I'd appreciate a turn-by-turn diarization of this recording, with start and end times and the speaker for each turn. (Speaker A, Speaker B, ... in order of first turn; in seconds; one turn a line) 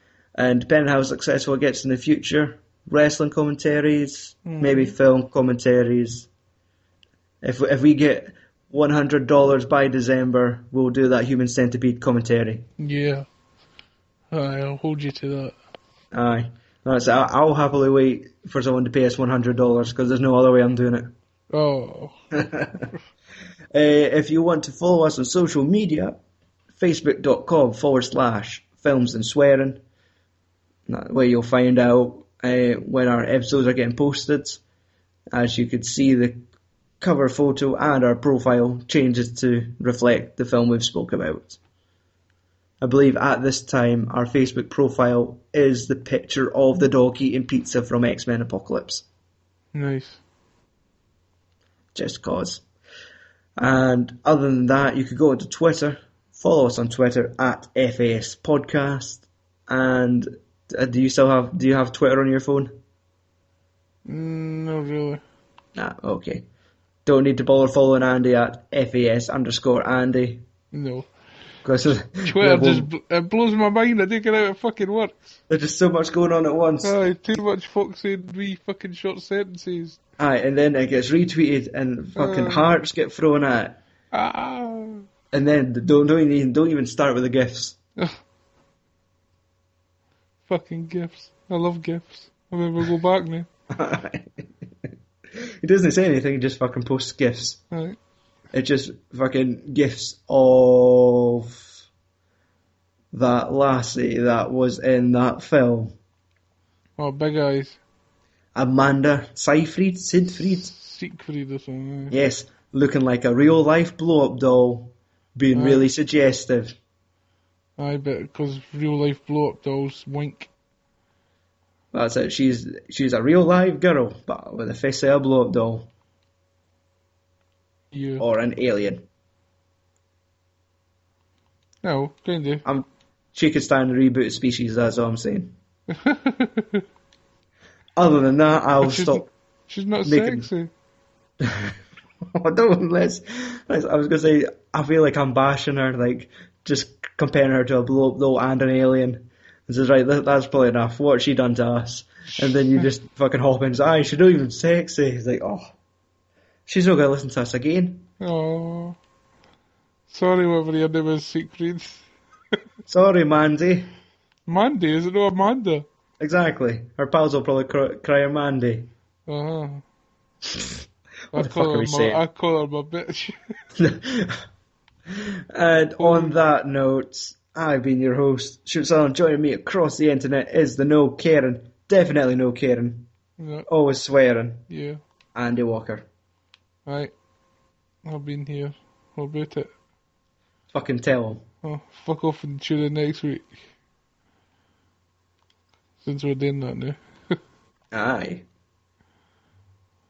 Speaker A: 0.3-6.3
Speaker B: 4.4-4.9
Speaker A: 7.4-12.7
Speaker B: 12.8-13.3
Speaker B: 14.3-15.5
Speaker A: 16.1-21.1
Speaker B: 21.5-22.1
Speaker A: 22.3-22.9
Speaker A: 23.7-26.2
Speaker A: 26.8-29.8
Speaker A: 30.9-34.6
Speaker A: 35.3-36.4
Speaker A: 37.0-41.6
Speaker A: 42.8-49.0
Speaker B: 49.7-50.2
Speaker A: 51.9-52.6
Speaker A: 53.6-62.8
Speaker B: 64.0-65.2
Speaker A: 65.8-66.4
Speaker A: 67.0-70.4
Speaker B: 70.7-71.1
Speaker A: 71.6-72.9
Speaker B: 72.2-75.3
Speaker A: 75.5-76.9
Speaker B: 76.8-80.0
Speaker A: 80.2-83.8
Speaker B: 82.2-82.7
Speaker B: 84.1-85.1
Speaker A: 85.3-87.8
Speaker B: 90.5-93.5
Speaker A: 93.7-94.3
Speaker A: 95.3-97.6
Speaker B: 97.7-98.0
Speaker A: 98.5-101.7
Speaker A: 103.1-106.0
Speaker B: 107.0-107.8
Speaker A: 108.5-110.7
Speaker B: 110.4-112.1
Speaker A: 112.1-116.8
Speaker B: 115.5-115.9
Speaker B: 117.8-120.5
Speaker A: 121.9-125.9
Speaker B: 127.9-128.2
Speaker A: 128.2-129.1
Speaker B: 131.8-132.6
Speaker A: 132.6-135.5
Speaker B: 135.9-136.8
Speaker A: 137.9-139.3
Speaker B: 138.8-140.7
Speaker A: 140.0-140.5
Speaker A: 141.4-141.7
Speaker A: 142.3-155.7
Speaker A: 156.7-158.1
Speaker B: 158.2-159.0
Speaker B: 160.1-162.1
Speaker A: 162.9-163.9
Speaker B: 164.4-165.8
Speaker A: 166.2-168.9
Speaker B: 169.3-169.8
Speaker A: 171.3-172.2
Speaker B: 171.3-173.5
Speaker A: 173.8-174.4
Speaker A: 175.1-183.1
Speaker B: 176.0-176.4
Speaker B: 183.4-183.7
Speaker A: 183.7-184.6
Speaker B: 184.7-185.0
Speaker A: 185.3-186.1
Speaker B: 186.8-187.1
Speaker B: 188.0-189.7
Speaker A: 190.7-191.4
Speaker B: 191.6-193.6
Speaker B: 196.0-197.4
Speaker A: 197.9-198.4